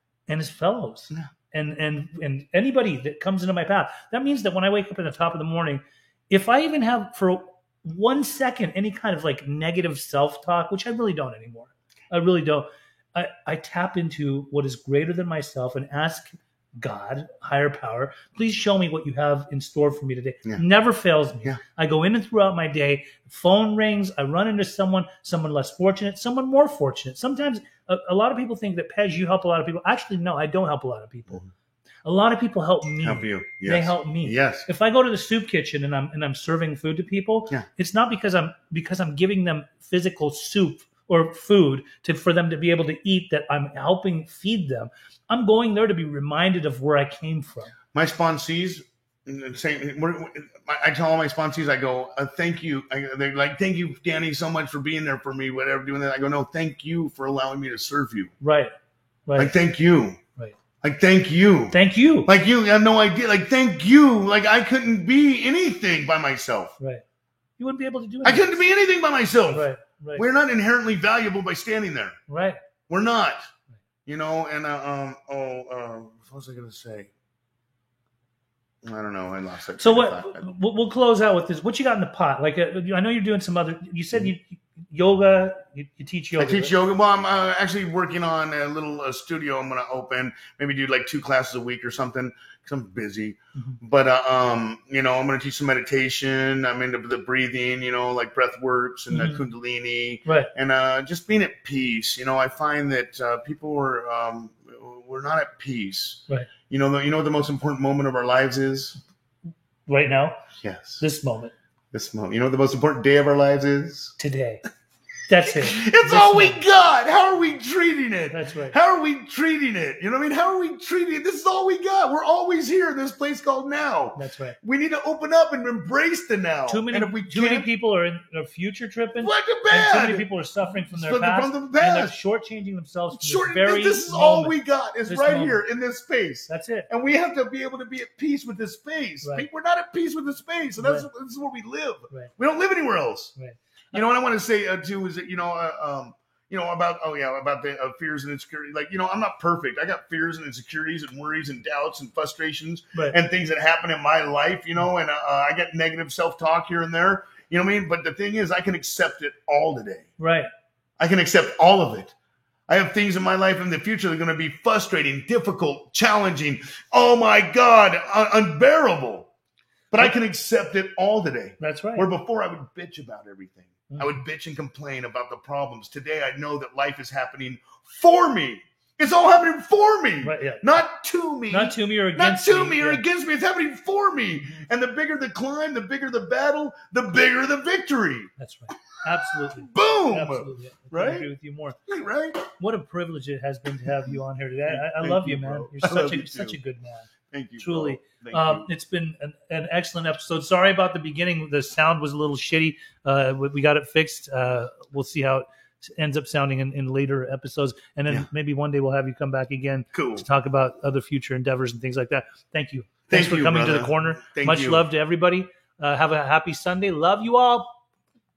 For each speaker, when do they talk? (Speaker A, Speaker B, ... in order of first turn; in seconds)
Speaker A: 0.3-31.4, 32.0-47.7, 58.4-58.7, 59.3-59.6, 61.7-62.3, 67.6-68.6, 69.5-70.2, 72.3-72.6, 79.8-86.7, 99.1-99.4, 109.9-110.4, 111.0-111.5, 114.2-114.6, 115.3-116.6, 118.3-118.8, 124.2-124.6, 126.7-135.6, 136.5-136.9, 140.8-141.1, 143.4-144.0, 160.2-160.5, 171.6-172.1, 173.9-174.2, 180.2-180.7, 181.5-183.0, 188.4-191.8, 192.6-197.1, 197.6-217.8
Speaker B: 33.0-34.7, 47.9-58.3, 59.4-60.2, 60.8-61.8, 62.3-66.7, 68.2-72.2, 72.9-73.4, 74.1-77.1, 78.8-80.4, 86.4-109.0, 110.6-111.0, 111.9-114.2, 115.4-127.7, 129.2-132.2, 133.1-143.3, 143.9-160.1, 161.0-162.1, 162.7-169.3, 169.9-188.3, 189.3-191.3, 191.9-192.5, 194.7-196.6, 197.3-198.7, 209.9-210.3, 213.1-214.8